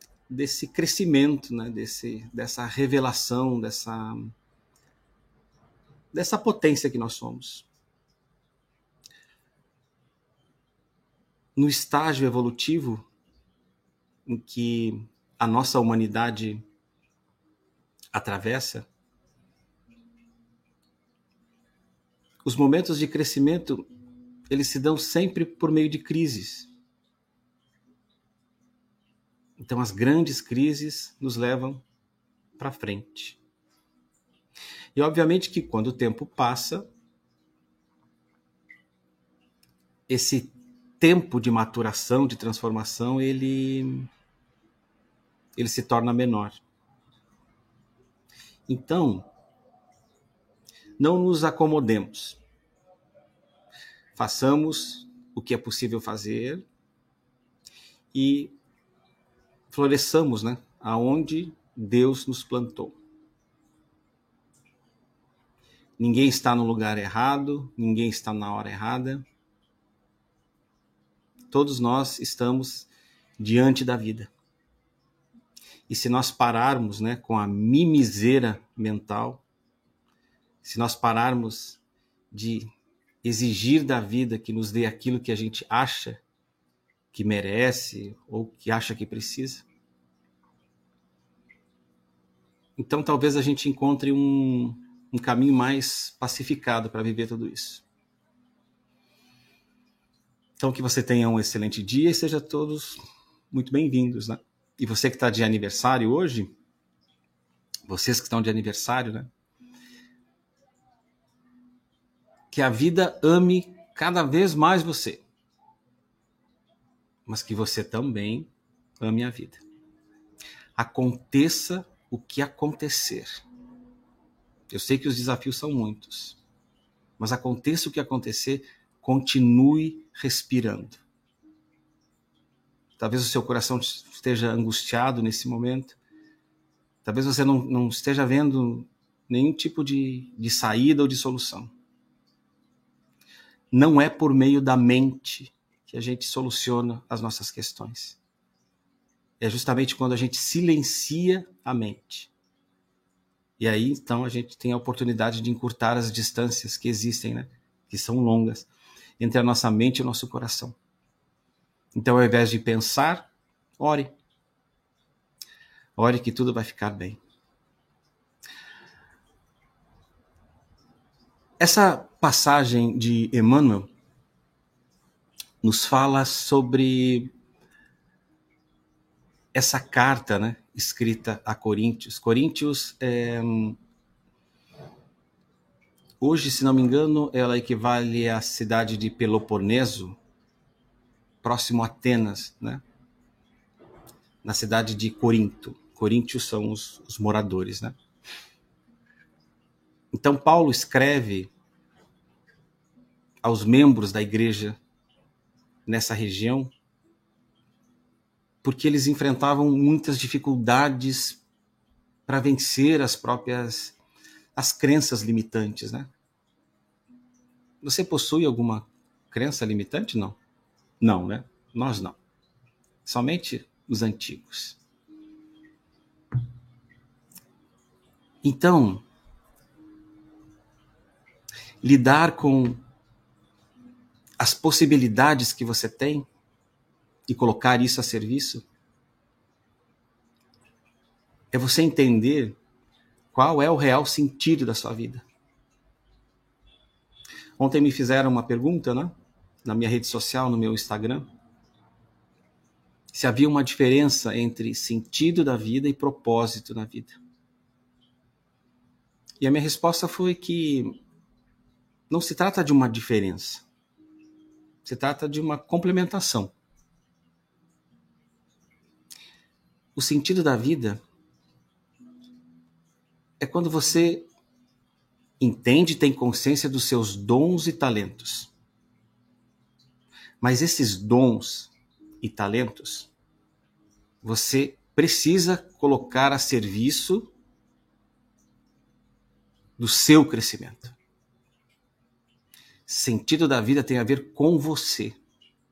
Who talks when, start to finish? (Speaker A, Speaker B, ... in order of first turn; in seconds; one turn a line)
Speaker A: 0.3-4.3
Speaker A: 6.1-7.7
Speaker A: 11.6-13.1
Speaker A: 14.3-16.6
Speaker A: 18.1-18.9
Speaker A: 22.4-23.9
Speaker A: 24.5-26.7
Speaker A: 29.6-31.8
Speaker A: 32.6-33.4
Speaker A: 35.0-36.9
Speaker A: 40.1-44.1
Speaker A: 45.5-46.6
Speaker A: 48.7-49.3
Speaker A: 51.0-52.4
Speaker A: 54.1-56.6
Speaker A: 58.1-58.5
Speaker A: 59.7-63.0
Speaker A: 66.0-69.2
Speaker A: 71.5-74.3
Speaker A: 75.9-79.4
Speaker A: 80.6-81.8
Speaker A: 82.3-82.7
Speaker A: 83.2-86.2
Speaker A: 87.1-89.7
Speaker A: 92.8-97.8
Speaker A: 100.6-103.0
Speaker A: 103.5-106.5
Speaker A: 107.9-109.3
Speaker A: 112.5-115.2
Speaker A: 117.3-119.6
Speaker A: 120.8-123.4
Speaker A: 124.7-126.4
Speaker A: 127.2-131.0
Speaker A: 133.0-136.0
Speaker A: 137.0-141.7
Speaker A: 143.7-148.2
Speaker A: 149.4-152.3
Speaker A: 153.6-158.7
Speaker A: 159.2-160.8
Speaker A: 161.9-164.1
Speaker A: 166.0-167.2
Speaker A: 171.6-173.9
Speaker A: 175.6-177.3
Speaker A: 179.5-183.8
Speaker A: 186.2-190.2
Speaker A: 191.4-192.8
Speaker A: 194.4-198.0
Speaker A: 200.1-201.5
Speaker A: 203.4-204.8
Speaker A: 205.9-206.7
Speaker A: 208.6-211.4
Speaker A: 212.3-214.0
Speaker A: 214.6-216.1
Speaker A: 217.8-220.4
Speaker A: 221.0-222.2
Speaker A: 223.1-224.8
Speaker A: 228.4-229.0
Speaker A: 231.8-232.8
Speaker A: 234.4-236.3
Speaker A: 237.3-238.7
Speaker A: 241.5-242.6
Speaker A: 243.3-245.2
Speaker A: 247.6-251.3
Speaker A: 253.1-257.2
Speaker A: 259.4-261.0
Speaker A: 262.1-263.6
Speaker A: 264.8-266.5
Speaker A: 269.9-271.0
Speaker A: 273.4-274.3
Speaker A: 275.4-278.5
Speaker A: 280.4-283.1
Speaker A: 284.2-287.3
Speaker A: 289.8-290.9
Speaker A: 292.9-295.2